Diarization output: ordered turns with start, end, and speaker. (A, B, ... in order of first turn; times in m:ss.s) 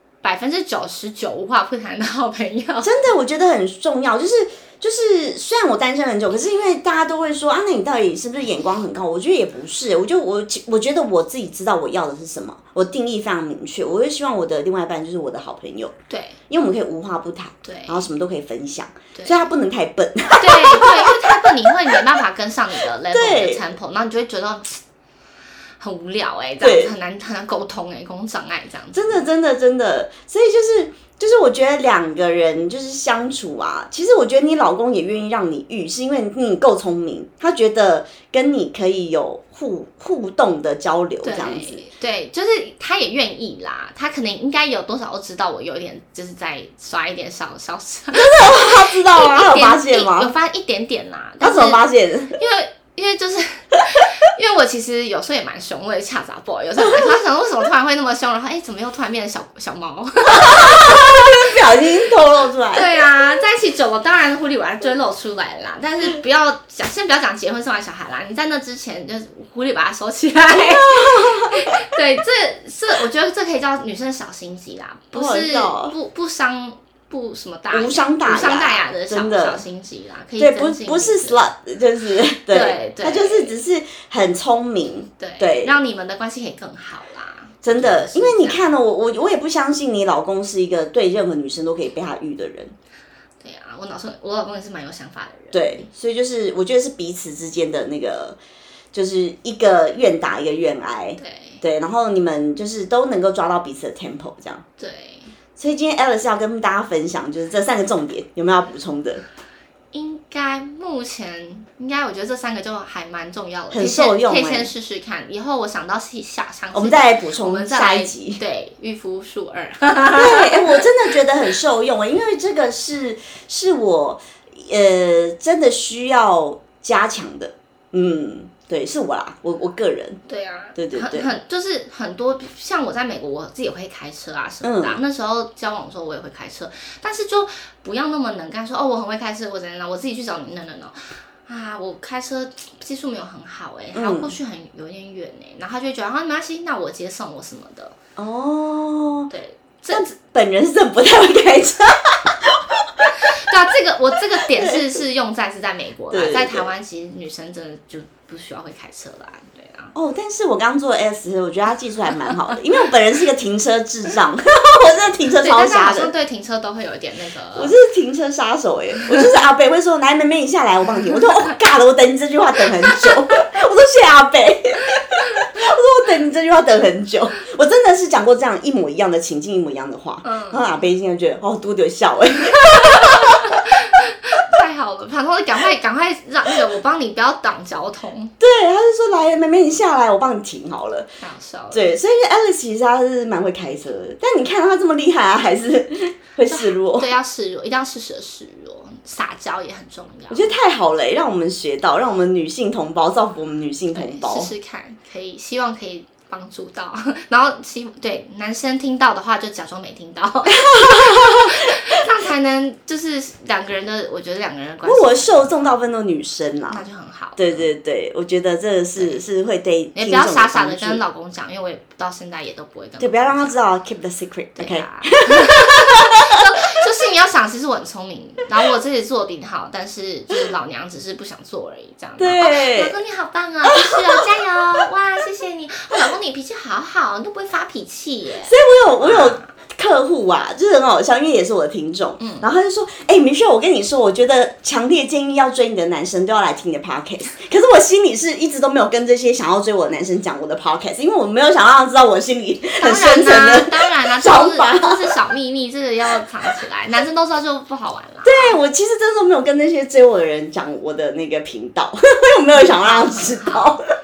0:00.2-0:02.9 A
0:02.8-0:15.9 B
0:16.1-0:16.4 A
0:16.5-0:22.0 B
0:17.6-0:18.0 A
0:20.4-0:24.8 A
0:23.1-0:23.6 B
0:25.8-0:29.3 A
0:26.6-0:26.9 B
0:28.9-0:41.8 B
0:41.2-1:01.8 A
0:48.1-0:50.3 B
0:51.4-0:52.4 B
1:00.3-1:02.9 B
1:02.7-1:21.4 A
1:10.5-1:11.7 B
1:15.1-1:15.9 B
1:17.7-1:19.6 B
1:20.4-1:25.8 B
1:22.5-1:23.5 A
1:25.2-1:28.7 A
1:27.6-1:32.8 B
1:33.4-1:35.9 A
1:35.5-1:38.4 B
1:38.9-1:44.6 B
1:41.2-1:41.6 A
1:44.8-1:45.3 A
1:45.6-1:49.2 B
1:49.9-2:00.9 A
1:53.7-1:54.7 B
1:56.7-1:58.4 B
2:00.1-2:10.2 B
2:10.3-2:28.0 A
2:10.8-2:11.3 B
2:14.6-2:15.0 B
2:23.9-2:24.3 B
2:28.2-2:29.3 B
2:29.3-2:30.0 A
2:29.9-2:33.2 B
2:33.2-2:39.9 A
2:34.4-2:35.0 B
2:36.1-2:36.7 B
2:40.0-2:46.1 B
2:45.3-2:47.8 A
2:47.6-3:03.6 B
3:00.2-3:00.6 A
3:02.5-3:08.3 A
3:08.4-3:11.1 B
3:11.2-3:11.8 A
3:11.7-3:17.1 B
3:16.5-3:20.5 A
3:20.3-3:24.5 B
3:23.9-3:35.5 A
3:30.5-3:32.0 B
3:34.8-3:36.8 B
3:36.7-3:37.7 A
3:37.4-3:41.0 B
3:40.0-3:43.6 A
3:43.0-3:46.4 B
3:44.6-3:59.5 A
3:52.2-3:52.9 B
3:53.7-3:54.8 B
3:58.4-4:15.2 B
4:02.2-4:02.5 A
4:12.8-4:18.6 A
4:18.2-4:23.8 B
4:22.5-4:23.8 A